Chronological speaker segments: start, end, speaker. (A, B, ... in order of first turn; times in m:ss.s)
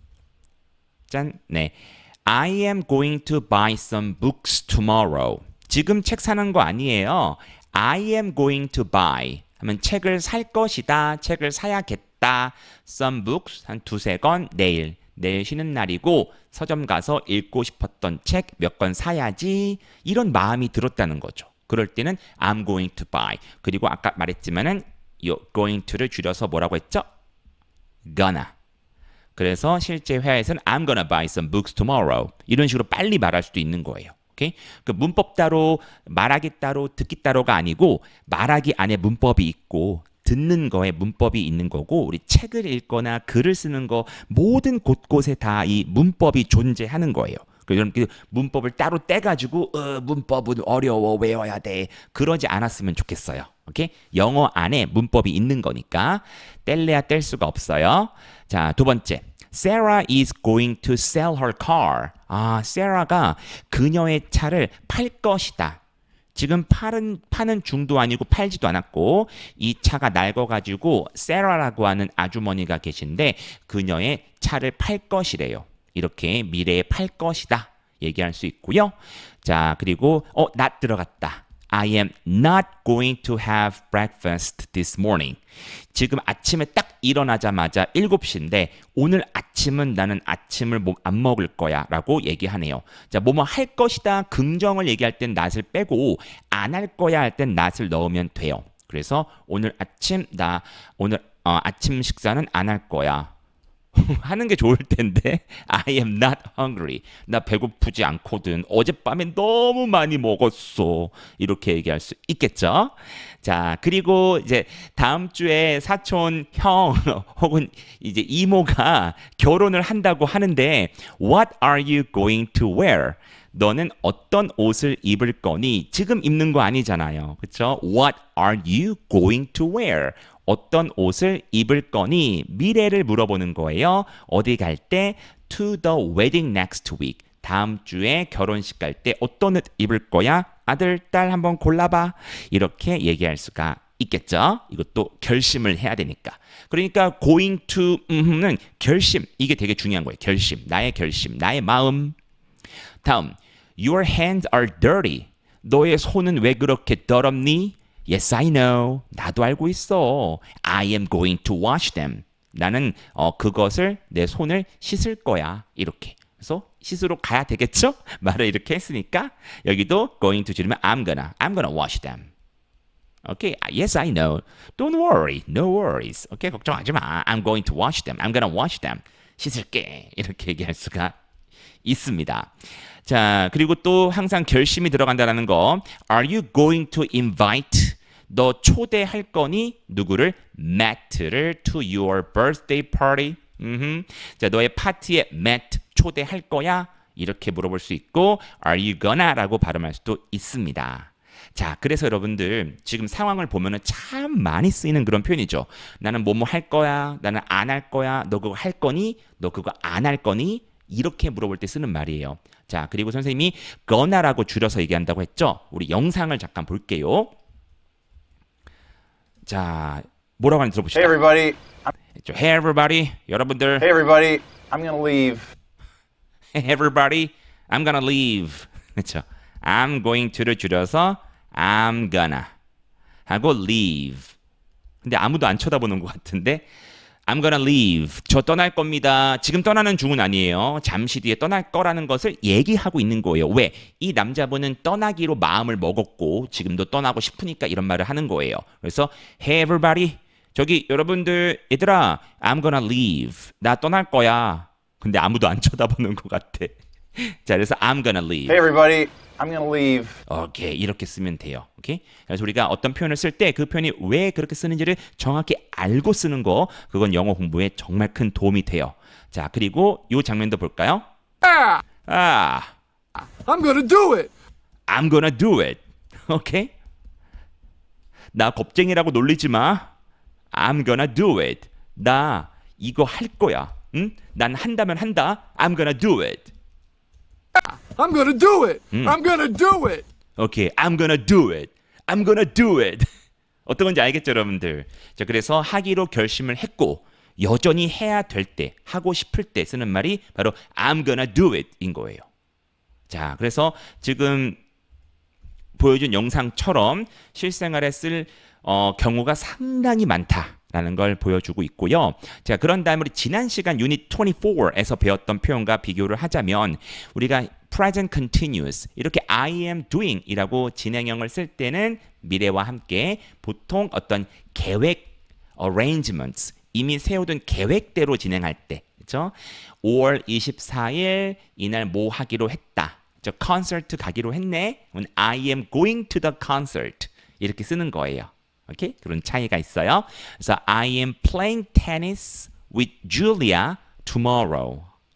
0:01.1-0:27.0 A
0:28.0-0:28.5 A
0:29.4-1:05.8 A
1:06.3-1:25.4 A
1:25.9-1:43.3 A
1:43.9-2:32.2 A
2:33.0-2:52.3 A
2:53.2-3:01.2 A
3:01.8-3:02.5 A
3:03.0-3:37.3 A
3:39.5-3:41.3 A
3:41.0-3:41.8 B
3:42.2-3:43.9 A
3:43.8-3:45.5 B
3:46.5-3:52.5 A
3:53.3-3:54.3 A
3:55.0-3:56.6 A
3:57.3-4:18.6 A
4:18.5-4:20.2 B
4:20.3-4:31.0 A
4:31.5-4:31.8 C
4:32.1-4:32.7 A
4:33.4-4:34.3 C
4:34.9-4:36.7 A
4:38.3-4:39.9 A
4:40.5-4:46.5 A
4:47.6-4:50.0 C
4:48.9-4:49.2 A
4:50.4-4:53.0 A
4:53.6-5:02.2 A
5:03.1-5:04.6 A
5:05.8-5:44.9 A